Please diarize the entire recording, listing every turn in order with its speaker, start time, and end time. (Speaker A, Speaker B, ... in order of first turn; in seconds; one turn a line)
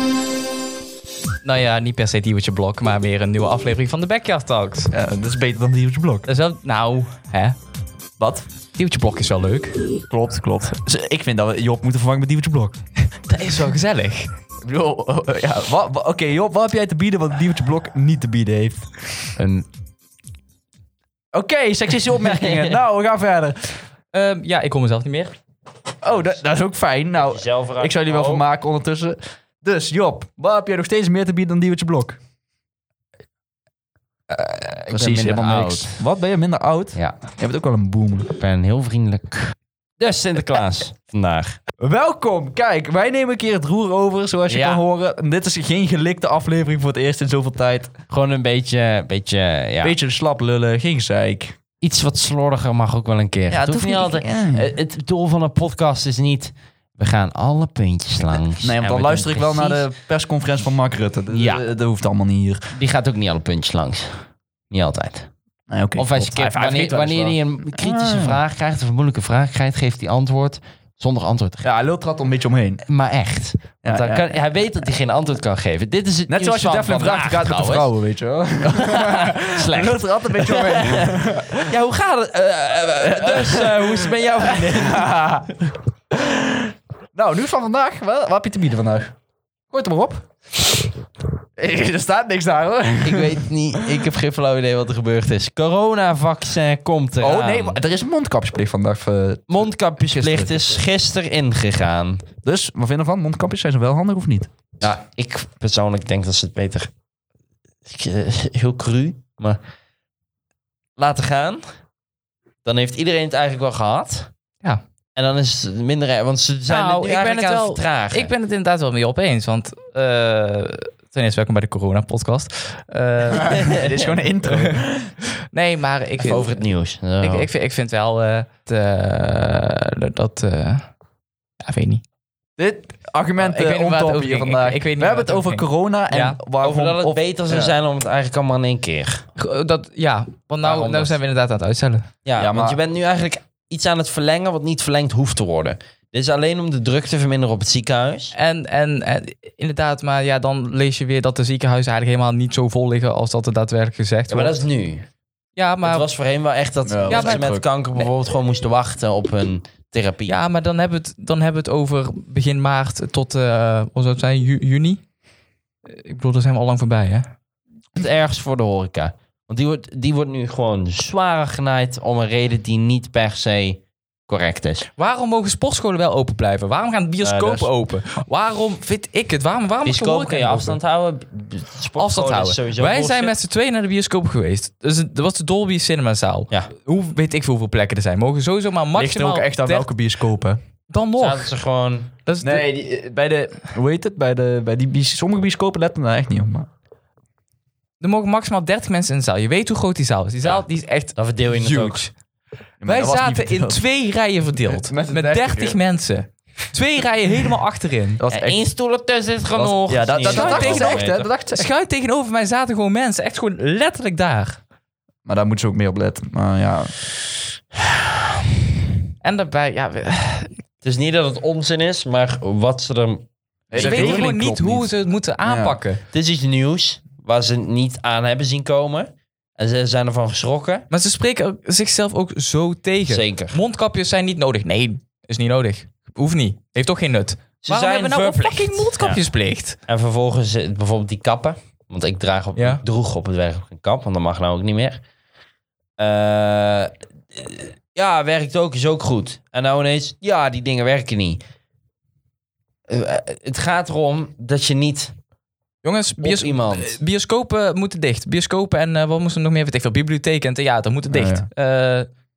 Speaker A: 1.4-4.9
Speaker B: 4.9-6.3
Speaker A: 6.3-7.6
Speaker B: 8.2-8.4
Speaker A: 8.8-9.8
Speaker B: 10.1-12.8
Speaker A: 13.2-14.3
Speaker B: 14.6-19.3
Speaker C: 19.4-19.7
Speaker B: 21.3-23.8
Speaker C: 22.2-22.8
Speaker A: 24.1-25.4
Speaker B: 26.0-32.2
Speaker C: 27.2-28.4
Speaker C: 34.4-36.0
Speaker B: 34.9-38.4
Speaker C: 38.4-41.6
Speaker B: 41.8-47.9
Speaker C: 44.5-44.8
Speaker C: 48.1-50.0
Speaker B: 49.8-51.6
Speaker C: 51.8-59.9
Speaker B: 53.5-54.7
Speaker B: 58.5-62.7
Speaker C: 61.3-61.6
Speaker C: 62.7-65.3
Speaker B: 65.7-68.4
Speaker C: 66.0-71.7
Speaker B: 71.6-72.8
Speaker C: 72.9-77.9
Speaker B: 73.8-74.3
Speaker B: 76.3-81.7
Speaker C: 78.7-85.1
Speaker B: 83.0-85.5
Speaker B: 86.1-89.2
Speaker B: 89.7-90.3
Speaker B: 91.6-94.0
Speaker C: 93.0-97.8
Speaker B: 97.2-100.8
Speaker C: 99.5-102.2
Speaker B: 102.4-104.5
Speaker C: 104.8-106.9
Speaker C: 107.9-109.6
Speaker C: 111.0-111.6
Speaker C: 112.6-114.3
Speaker C: 115.2-118.3
Speaker A: 116.7-124.8
Speaker C: 123.5-123.9
Speaker B: 123.6-125.2
Speaker A: 125.5-126.6
Speaker C: 126.2-127.5
Speaker A: 127.2-130.9
Speaker A: 131.6-132.0
Speaker B: 132.6-137.8
Speaker A: 133.4-136.4
Speaker C: 136.6-139.2
Speaker A: 139.4-142.1
Speaker C: 140.6-141.2
Speaker C: 142.2-148.3
Speaker B: 142.4-142.8
Speaker A: 148.3-154.6
Speaker C: 154.3-155.1
Speaker A: 155.6-156.1
Speaker C: 155.8-160.4
Speaker B: 156.9-157.7
Speaker A: 157.1-157.4
Speaker A: 160.3-165.0
Speaker A: 165.9-167.3
Speaker C: 168.0-174.9
Speaker A: 175.0-180.8
Speaker C: 177.2-177.7
Speaker C: 179.8-183.3
Speaker A: 182.0-189.9
Speaker B: 188.9-190.6
Speaker A: 190.9-191.5
Speaker C: 191.2-192.1
Speaker A: 192.3-192.7
Speaker B: 192.4-196.7
Speaker A: 198.0-202.1
Speaker C: 201.2-202.1
Speaker B: 202.8-203.8
Speaker A: 202.8-208.2
Speaker B: 204.7-205.8
Speaker B: 208.2-208.7
Speaker C: 208.3-211.2
Speaker B: 209.6-211.7
Speaker A: 210.2-214.6
Speaker B: 215.3-217.0
Speaker A: 219.2-220.5
Speaker C: 220.8-224.3
Speaker B: 223.7-224.9
Speaker A: 223.8-226.0
Speaker B: 225.4-225.8
Speaker C: 226.1-230.9
Speaker A: 230.9-239.8
Speaker C: 233.1-233.6
Speaker C: 237.6-239.3
Speaker C: 239.9-245.0
Speaker A: 242.6-242.8
Speaker C: 246.0-251.4
Speaker C: 252.9-255.1
Speaker A: 255.8-262.1
Speaker C: 256.2-257.0
Speaker B: 261.1-261.5